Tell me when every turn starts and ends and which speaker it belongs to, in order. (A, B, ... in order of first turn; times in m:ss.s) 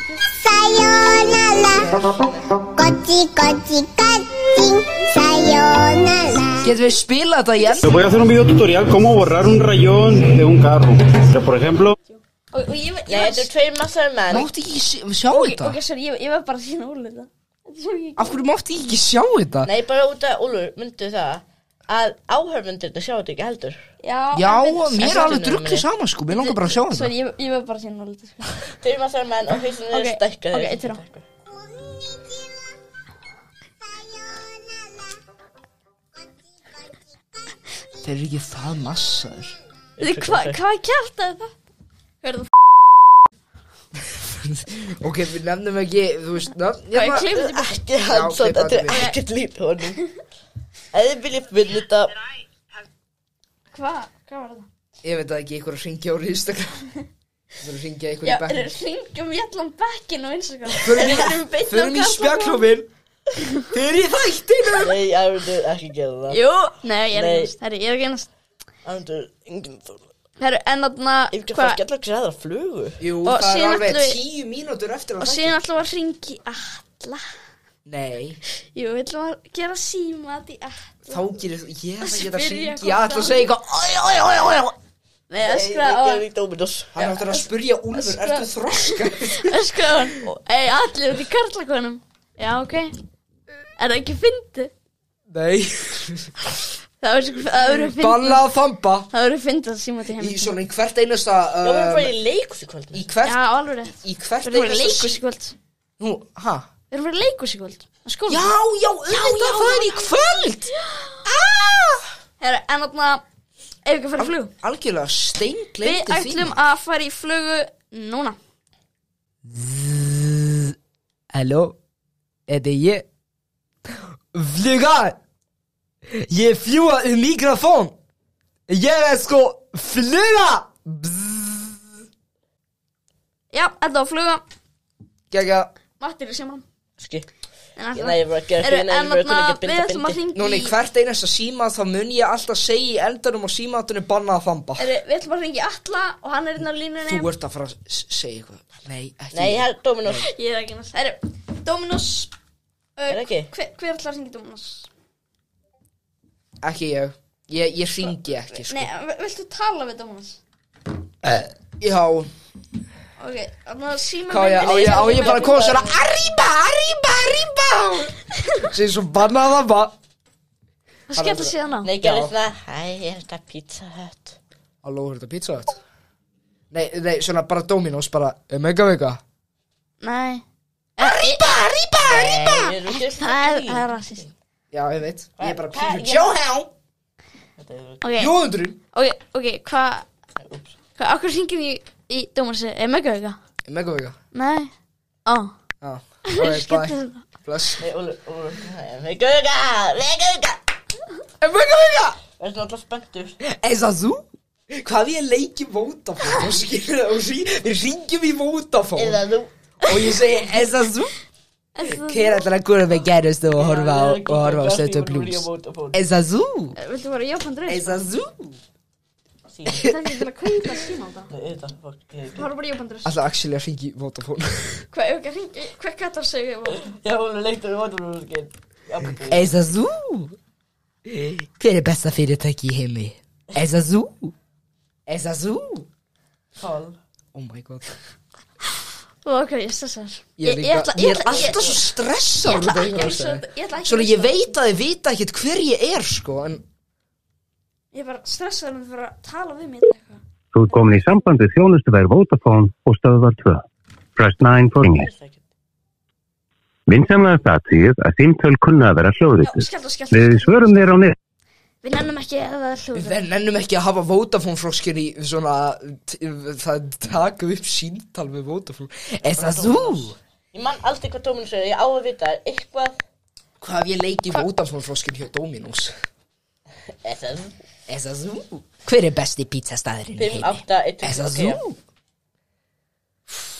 0:00.2-0:06.7 A
0:06.6-0:07.8 B
0:07.8-0:11.9 C
0:12.0-0:13.5 D
0:13.1-0:14.5 E
0:14.3-0:15.8 B
0:15.3-0:18.4 D
0:18.2-0:19.7 B
0:19.6-0:23.8 E
0:24.0-0:25.3 D
0:24.3-0:27.1 B
0:25.0-0:25.8 E
0:26.3-0:28.8 D
0:28.8-0:31.2 E
0:29.9-0:31.0 D
0:31.6-0:32.6 A
0:38.0-0:39.6 B
0:40.0-0:40.6 E
0:40.0-0:41.5 D
0:42.2-0:42.5 D
0:44.1-0:47.3 B
0:46.9-0:47.8 D
0:47.1-0:50.0 E
0:48.1-0:49.1 B
0:50.9-0:52.3 E
0:53.7-0:54.7 D
0:55.0-0:56.9 B
0:57.6-0:58.7 B
0:58.2-1:02.7 D
1:00.8-1:02.9 B
1:01.0-1:01.3 E
1:03.7-1:05.0 B
1:04.8-1:06.4 E
1:06.3-1:08.3 D
1:07.1-1:07.5 E
1:08.8-1:10.0 E
1:10.4-1:11.8 D
1:11.3-1:13.0 E
1:13.0-1:15.6 B
1:13.2-1:14.2 D
1:15.2-1:17.3 D
1:17.8-1:18.4 B
1:18.7-1:21.2 D
1:21.1-1:24.7 B
1:22.0-1:23.5 D
1:25.3-1:26.2 D
1:25.4-1:27.0 E
1:26.9-1:29.6 B
1:27.0-1:32.9 D
1:33.8-1:34.7 D
1:35.3-1:36.3 B
1:37.0-1:38.5 D
1:37.7-1:39.1 B
1:39.1-1:40.5 D
1:40.2-1:42.1 B
1:41.6-1:43.1 E
1:42.9-1:45.2 B
1:43.2-1:45.5 D
1:46.0-1:46.7 B
1:46.9-1:48.5 D
1:48.3-1:50.7 B
1:49.1-1:51.3 D
1:51.2-1:52.1 B
1:52.4-1:53.2 D
1:53.8-1:54.5 D
1:54.2-1:56.6 B
1:55.8-1:58.4 D
1:59.4-2:00.7 B
2:01.3-2:01.8 B
2:02.5-2:03.0 B
2:03.8-2:05.2 B
2:06.1-2:08.0 B
2:08.7-2:11.9 B
2:13.5-2:14.4 D
2:15.3-2:15.7 B
2:16.0-2:16.6 D
2:17.0-2:17.3 E
2:17.8-2:20.7 D
2:17.9-2:20.2 E
2:20.3-2:24.9 B
2:24.8-2:27.3 D
2:27.0-2:30.2 B
2:29.3-2:30.3 E
2:30.2-2:32.3 D
2:33.0-2:34.9 D
2:33.1-2:33.5 E
2:36.6-2:38.9 B
2:38.0-2:40.4 D
2:41.2-2:42.3 B
2:43.2-2:46.0 D
2:44.3-2:49.9 B
2:51.1-2:51.9 D
2:51.1-2:52.3 B
2:51.8-2:54.4 E
2:54.8-2:55.8 B
2:56.7-2:59.2 B
3:00.0-3:00.4 D
3:01.0-3:01.4 D
3:01.0-3:02.7 B
3:02.0-3:04.3 E
3:02.9-3:04.3 D
3:04.7-3:06.7 B
3:05.4-3:06.4 E
3:07.6-3:08.0 E
3:08.0-3:08.3 D
3:08.2-3:08.8 B
3:08.9-3:10.1 D
3:10.4-3:10.7 E
3:11.0-3:13.4 D
3:13.7-3:14.2 B
3:14.3-3:14.7 D
3:15.2-3:15.5 D
3:15.8-3:17.8 B
3:16.2-3:17.2 D
3:17.8-3:20.6 E
3:21.4-3:22.2 B
3:22.4-3:23.4 E
3:23.4-3:29.2 B
3:29.0-3:29.5 E
3:29.8-3:31.1 B
3:31.7-3:32.5 D
3:31.8-3:36.8 B
3:33.5-3:36.0 E
3:36.8-3:38.0 D
3:37.7-3:38.6 B
3:39.5-3:39.9 E
3:39.7-3:40.1 B
3:39.8-3:41.3 D
3:41.3-3:42.5 E
3:42.3-3:43.1 D
3:43.0-3:44.8 B
3:44.9-3:46.9 D
3:46.8-3:49.5 E
3:49.3-3:50.4 B
3:51.0-3:54.3 B
3:55.1-3:55.9 B
3:56.6-3:57.0 E
3:57.3-3:57.9 B
3:59.2-4:01.8 D
4:00.4-4:06.6 B
4:01.2-4:01.7 E
4:02.4-4:04.5 D
4:07.9-4:10.2 D
4:10.5-4:13.6 F
4:14.2-4:15.1 F
4:14.9-4:15.4 E
4:16.9-4:21.2 F
4:19.4-4:20.8 D
4:21.8-4:23.2 D
4:22.9-4:30.2 B
4:29.3-4:33.0 E
4:33.6-4:35.9 B
4:36.9-4:37.5 E
4:37.9-4:41.8 B
4:40.2-4:41.6 E